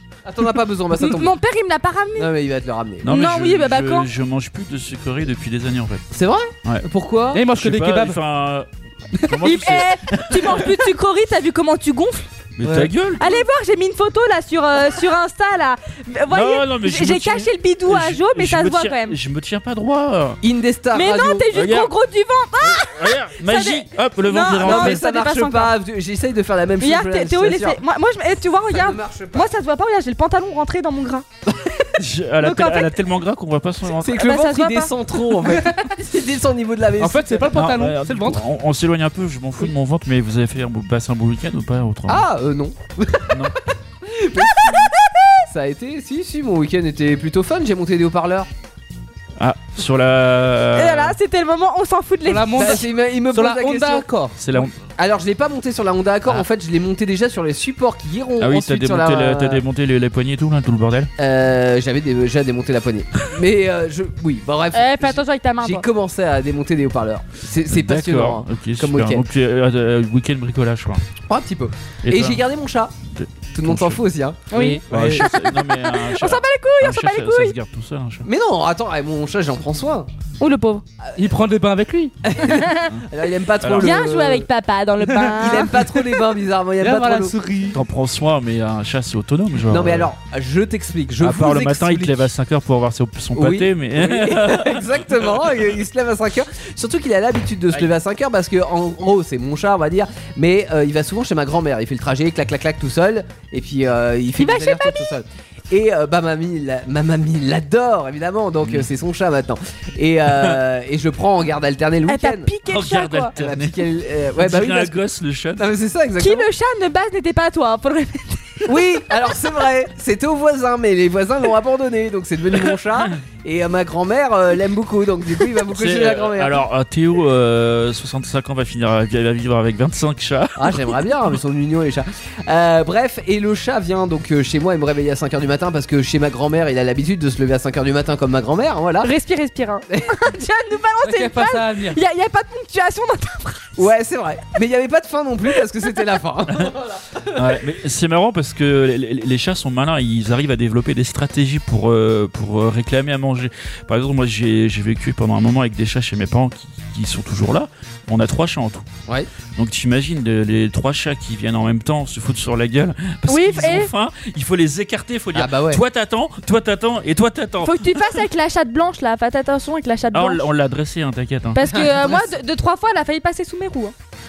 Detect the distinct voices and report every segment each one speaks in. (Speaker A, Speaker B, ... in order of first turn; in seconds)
Speaker A: 0.2-1.3, 2.1-3.1, 6.1-7.4, 20.4-21.4, 24.5-27.8, 28.7-29.5, 31.5-31.9, 33.9-37.6, 42.1-48.5, 52.5-59.6, 61.2-69.2, 71.3-72.9, 73.5-75.4, 78.2-80.1, 82.2-84.5, 85.2-87.4, 89.7-92.3, 93.3-112.5, 113.3-115.0, 115.5-116.5, 118.7-126.6, 130.6-139.1, 143.8-147.4, 165.3-165.8, 171.6-172.3
Speaker B: 1.0-2.3, 3.0-4.1, 9.3-12.3, 13.2-19.2, 20.9-25.7, 26.8-31.2, 32.4-32.9, 34.1-34.9, 50.7-52.8, 64.7-65.8, 74.5-77.5, 80.4-80.8, 82.4-82.9, 83.8-86.0, 104.4-105.1, 112.0-113.3, 116.2-118.7, 139.0-143.8, 163.3-163.9, 167.6-170.4, 171.5-173.9
Speaker C: 3.0-6.0, 7.5-10.8, 12.6-13.3, 16.3-20.4, 21.5-21.9, 22.6-25.0, 31.9-34.2, 37.5-42.3, 43.3-43.5, 49.4-51.1, 54.4-54.8, 58.4-61.1, 67.7-71.0, 72.0-72.4, 73.1-74.0, 74.9-78.3, 83.6-84.0, 87.7-90.1, 91.2-94.9, 112.7-113.8, 114.4-115.7, 125.7-130.9, 147.3-158.8, 159.6-168.2, 170.1-171.6
Speaker D: 7.3-8.2, 12.6-12.9, 37.0-38.4, 52.2-54.3, 74.9-75.3, 81.2-82.1, 86.8-87.8, 141.0-142.0